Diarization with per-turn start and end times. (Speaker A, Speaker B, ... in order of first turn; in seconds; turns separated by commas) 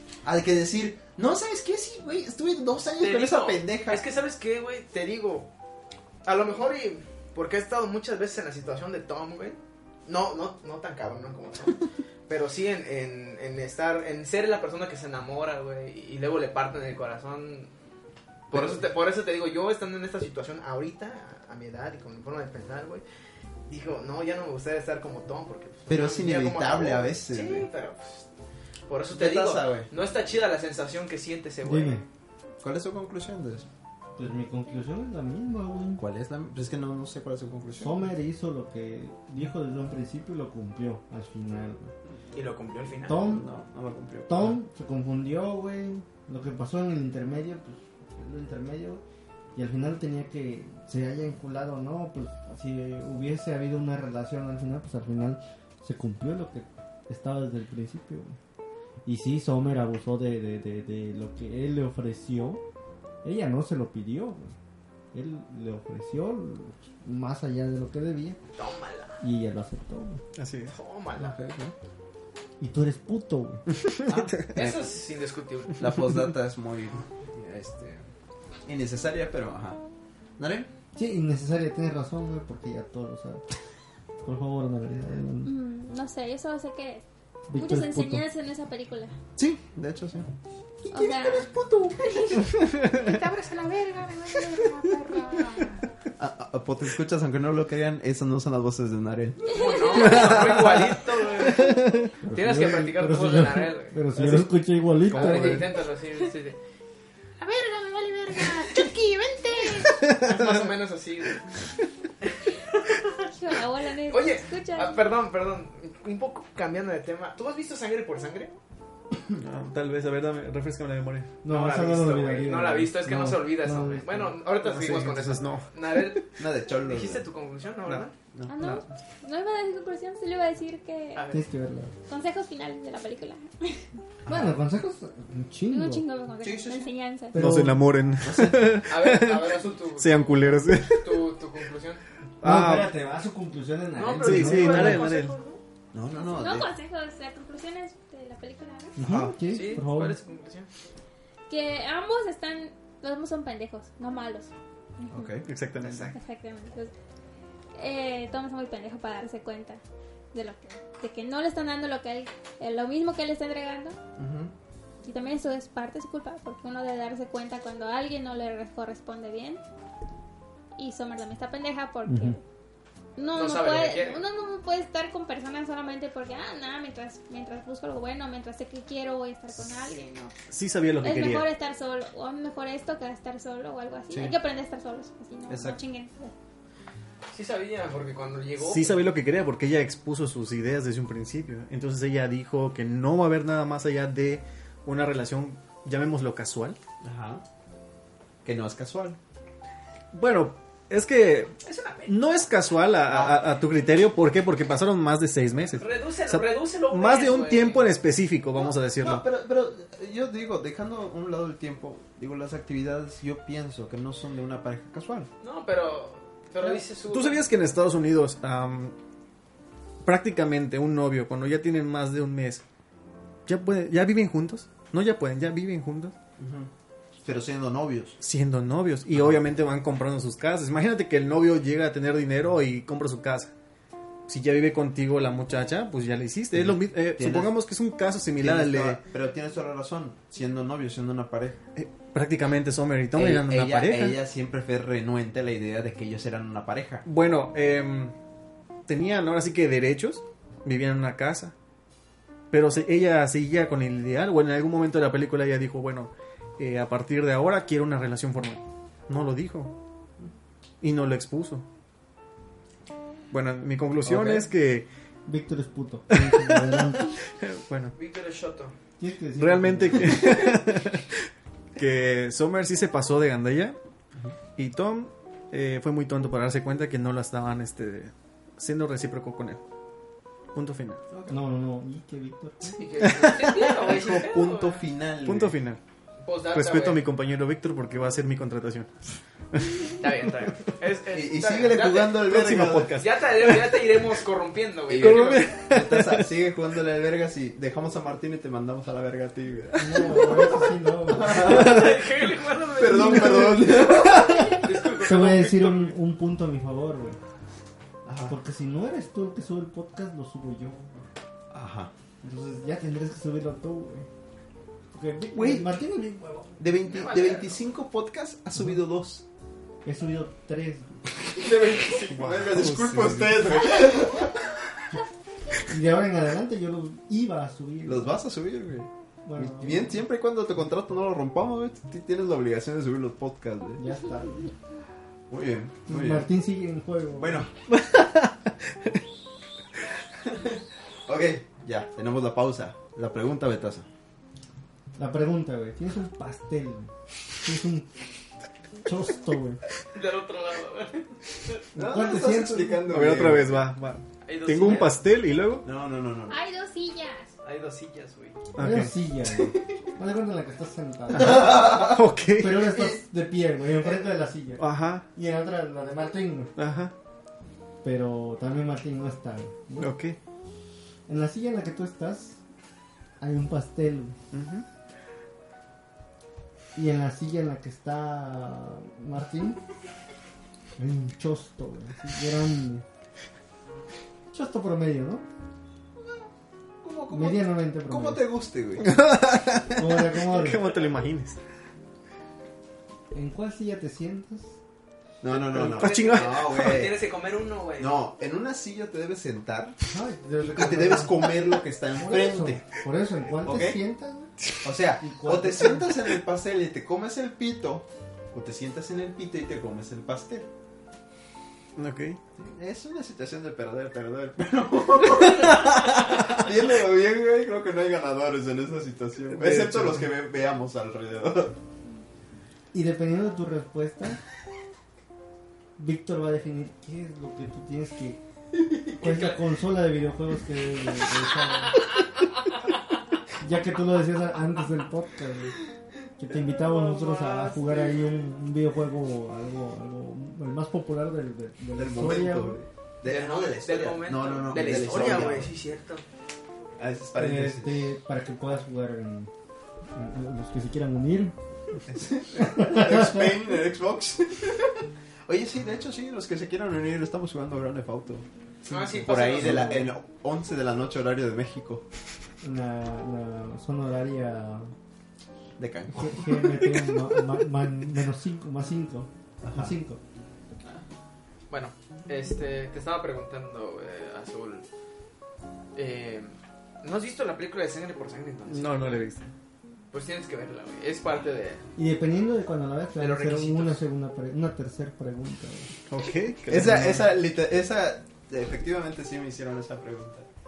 Speaker A: 0.2-4.0, Speaker B: 3.0-5.5, Speaker B: 6.2-17.7, Speaker B: 18.5-23.0, Speaker A: 18.5-18.8, Speaker B: 23.7-28.2, Speaker A: 25.9-27.7, Speaker B: 28.9-32.0, Speaker A: 29.1-29.9, Speaker C: 31.6-32.0, Speaker A: 32.6-33.7, Speaker C: 34.1-36.0, Speaker A: 36.0-38.0, Speaker C: 37.7-41.9, Speaker B: 42.3-43.2, Speaker C: 43.1-43.5, Speaker A: 43.2-44.5, Speaker C: 44.3-49.0, Speaker C: 49.5-58.4, Speaker C: 59.0-62.6, Speaker C: 63.2-64.5, Speaker C: 65.1-68.4, Speaker B: 68.5-69.2, Speaker C: 69.2-70.2, Speaker D: 70.3-70.8, Speaker B: 70.7-71.3, Speaker D: 71.3-71.7, Speaker C: 72.6-73.6, Speaker D: 73.8-74.5, Speaker B: 74.0-75.9, Speaker A: 74.5-74.8, Speaker A: 75.8-78.0, Speaker A: 78.7-79.8, Speaker A: 80.4-80.7, Speaker C: 80.9-83.4, Speaker C: 84.2-85.5, Speaker E: 85.4-87.0, Speaker C: 87.5-88.2, Speaker E: 87.5-89.1, Speaker A: 89.3-90.3, Speaker E: 90.9-91.5, Speaker F: 92.0-95.9, Speaker A: 96.2-99.6, Speaker B: 99.5-104.4, Speaker E: 99.7-100.3, Speaker D: 100.1-100.8, Speaker D: 101.6-102.1, Speaker C: 102.2-105.7, Speaker D: 104.2-104.5, Speaker B: 105.1-106.6, Speaker D: 105.1-105.6, Speaker F: 107.4-110.0, Speaker D: 110.1-110.3, Speaker B: 110.1-111.4, Speaker B: 112.2-113.0, Speaker E: 113.2-115.0, Speaker B: 114.1-118.5, Speaker D: 119.4-121.3, Speaker C: 121.4-124.4, Speaker B: 121.5-128.1, Speaker D: 124.6-126.2, Speaker A: 126.4-127.2, Speaker A: 128.3-128.8, Speaker E: 128.5-131.2, Speaker B: 131.1-131.4, Speaker C: 131.3-131.9, Speaker E: 132.1-133.8, Speaker A: 134.2-134.6, Speaker C: 134.3-136.0, Speaker E: 135.7-137.3, Speaker A: 136.4-136.9, Speaker C: 137.3-137.9, Speaker D: 137.3-141.3, Speaker A: 138.2-138.8, Speaker B: 138.9-142.0, Speaker D: 142.4-142.9, Speaker C: 142.4-145.1, Speaker B: 143.9-145.6, Speaker D: 144.2-145.3, Speaker A: 145.9-146.7, Speaker E: 146.2-149.0, Speaker C: 149.0-150.2, Speaker A: 149.0-149.3, Speaker B: 149.5-150.7, Speaker E: 151.5-155.3, Speaker A: 155.1-156.1, Speaker D: 155.4-156.1, Speaker E: 156.1-156.9, Speaker E: 157.7-159.8, Speaker E: 160.3-164.0, Speaker A: 164.2-164.5, Speaker E: 165.0-169.6, Speaker E: 170.8-172.4, Speaker C: 172.1-172.4, Speaker E: 173.2-180.3, Speaker B: 173.3-174.2, Speaker D: 180.5-181.5, Speaker E: 181.0-186.3, Speaker A: 184.1-184.4, Speaker A: 185.5-185.8, Speaker B: 187.3-189.1, Speaker D: 188.6-196.8, Speaker A: 197.0-197.4, Speaker A: 198.4-199.2, Speaker D: 200.1-209.2, Speaker B: 201.6-202.3, Speaker A: 203.1-203.5, Speaker B: 205.7-208.1, Speaker A: 208.5-215.3, Speaker B: 215.4-217.4, Speaker D: 217.0-218.9, Speaker D: 220.0-222.6, Speaker D: 223.5-226.1, Speaker A: 226.4-226.7, Speaker A: 227.2-228.2, Speaker D: 228.2-233.5, Speaker A: 229.1-229.4, Speaker D: 234.3-239.0, Speaker A: 236.5-237.6, Speaker A: 238.4-241.7, Speaker D: 241.8-244.2, Speaker A: 243.1-247.1, Speaker D: 247.0-248.1, Speaker D: 248.9-251.5, Speaker D: 252.5-259.7, Speaker D: 260.8-261.6, Speaker D: 263.3-264.9, Speaker B: 264.1-264.4, Speaker C: 265.2-267.1, Speaker D: 266.1-267.9, Speaker B: 267.9-268.7, Speaker C: 269.0-270.4, Speaker D: 269.4-273.8, Speaker D: 274.6-279.6, Speaker D: 280.5-281.0, Speaker A: 281.1-281.4, Speaker C: 281.3-282.6, Speaker B: 282.6-284.8, Speaker D: 283.0-283.7, Speaker A: 283.4-285.6, Speaker D: 285.2-285.8, Speaker B: 286.2-287.1, Speaker D: 286.5-288.9, Speaker D: 289.5-289.9, Speaker B: 290.0-292.2, Speaker A: 291.1-293.0, Speaker D: 292.2-294.1, Speaker B: 293.0-295.6, Speaker A: 294.9-302.1, Speaker D: 294.9-296.3, Speaker C: 299.8-301.8, Speaker B: 301.3-303.8, Speaker A: 302.7-304.6, Speaker C: 302.9-307.2, Speaker B: 304.5-305.9, Speaker A: 308.0-308.4, Speaker C: 308.3-311.0, Speaker A: 311.5-311.9, Speaker C: 312.2-314.1, Speaker C: 314.9-316.4, Speaker A: 315.3-315.7, Speaker A: 316.6-319.2, Speaker B: 316.8-317.6, Speaker C: 319.8-321.0, Speaker A: 321.2-324.5, Speaker D: 322.1-323.7, Speaker C: 325.7-328.2, Speaker A: 327.8-333.8, Speaker C: 329.2-330.0, Speaker C: 333.8-334.5, Speaker A: 335.3-336.3, Speaker C: 335.9-337.4, Speaker A: 337.2-337.5, Speaker D: 337.7-339.0, Speaker A: 340.2-343.9, Speaker C: 345.0-346.9, Speaker C: 347.4-347.9, Speaker C: 348.8-349.6, Speaker B: 349.9-351.6, Speaker C: 351.7-353.0, Speaker A: 351.8-353.7, Speaker D: 352.9-355.6, Speaker B: 354.2-354.9, Speaker A: 355.6-356.4, Speaker E: 356.3-357.3, Speaker B: 357.4-358.4, Speaker D: 358.6-358.9, Speaker C: 358.6-361.8, Speaker D: 361.1-362.6, Speaker A: 361.1-362.0, Speaker C: 362.4-366.5, Speaker A: 362.6-363.0, Speaker D: 364.6-365.1, Speaker D: 366.6-366.9, Speaker C: 367.8-369.9, Speaker D: 369.8-370.1, Speaker C: 371.1-372.4, Speaker C: 373.2-374.2, Speaker D: 374.3-374.6, Speaker C: 376.7-379.6, Speaker C: 380.8-382.8, Speaker C: 384.3-385.2, Speaker A: 386.0-386.2, Speaker A: 386.8-389.0, Speaker C: 387.1-388.2, Speaker D: 388.8-391.4, Speaker C: 389.7-390.7, Speaker C: 393.1-394.6, Speaker A: 395.2-397.0, Speaker D: 395.3-396.8, Speaker B: 395.8-398.0, Speaker A: 397.8-399.8, Speaker C: 399.9-404.3, Speaker A: 400.4-402.6, Speaker A: 403.4-403.8, Speaker A: 404.6-410.5, Speaker C: 405.0-405.9, Speaker D: 411.8-412.2, Speaker A: 412.4-421.6, Speaker D: 419.3-420.1, Speaker C: 422.7-424.2, Speaker C: 425.8-428.2, Speaker C: 428.9-431.8, Speaker C: 433.4-435.6, Speaker C: 436.2-442.6, Speaker B: 436.7-438.1, Speaker A: 441.7-445.5, Speaker B: 443.0-446.0, Speaker A: 446.8-447.9, Speaker C: 447.1-449.3, Speaker C: 449.9-451.3, Speaker A: 451.9-461.8, Speaker C: 452.4-453.4, Speaker B: 458.7-459.8, Speaker C: 459.1-459.9, Speaker C: 462.4-464.7, Speaker A: 465.6-467.2, Speaker C: 465.9-470.0, Speaker A: 469.4-469.8, Speaker B: 471.5-474.6, Speaker B: 475.7-479.1, Speaker D: 478.5-479.3, Speaker B: 479.9-481.6, Speaker C: 481.8-485.7, Speaker B: 483.0-483.8, Speaker D: 485.9-487.0, Speaker A: 486.5-490.3, Speaker C: 486.7-487.0